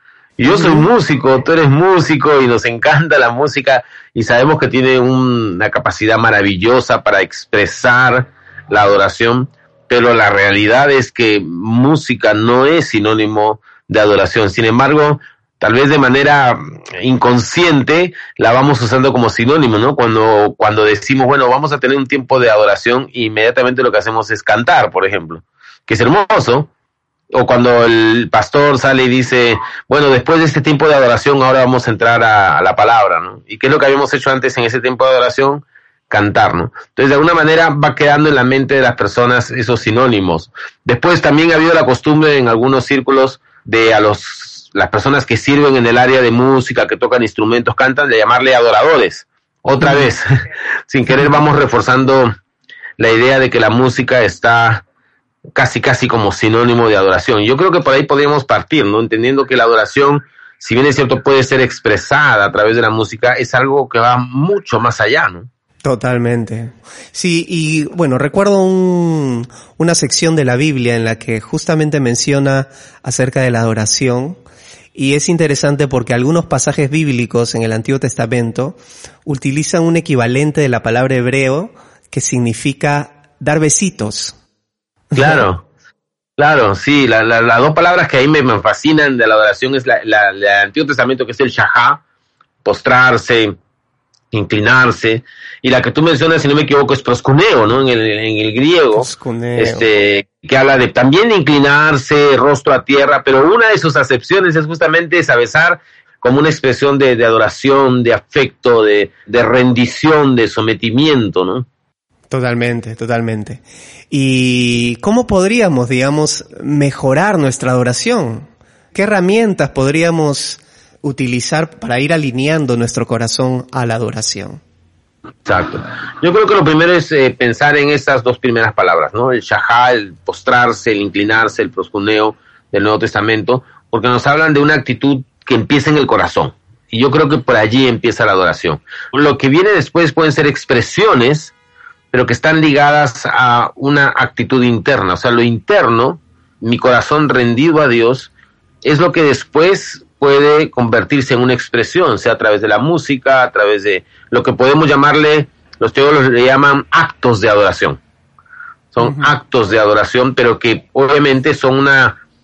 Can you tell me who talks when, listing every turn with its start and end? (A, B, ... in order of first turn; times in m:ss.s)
0:00.4-0:26.7 A
0:00.5-0:00.9 B
0:27.3-0:50.2 A
0:49.8-0:50.1 B
0:50.9-0:52.3 A
0:53.0-0:54.8 A
0:55.6-1:05.5 A
1:05.8-1:14.4 B
1:15.0-1:24.4 B
1:25.1-1:25.5 B
1:25.1-1:25.7 A
1:26.4-1:32.0 A
1:32.6-1:33.6 A
1:34.3-1:51.7 A
1:38.9-1:39.9 B
1:52.3-2:04.6 B
2:05.5-2:21.5 A
2:22.1-2:28.3 A
2:28.8-2:38.0 A
2:38.9-2:42.2 A
2:39.0-2:39.3 B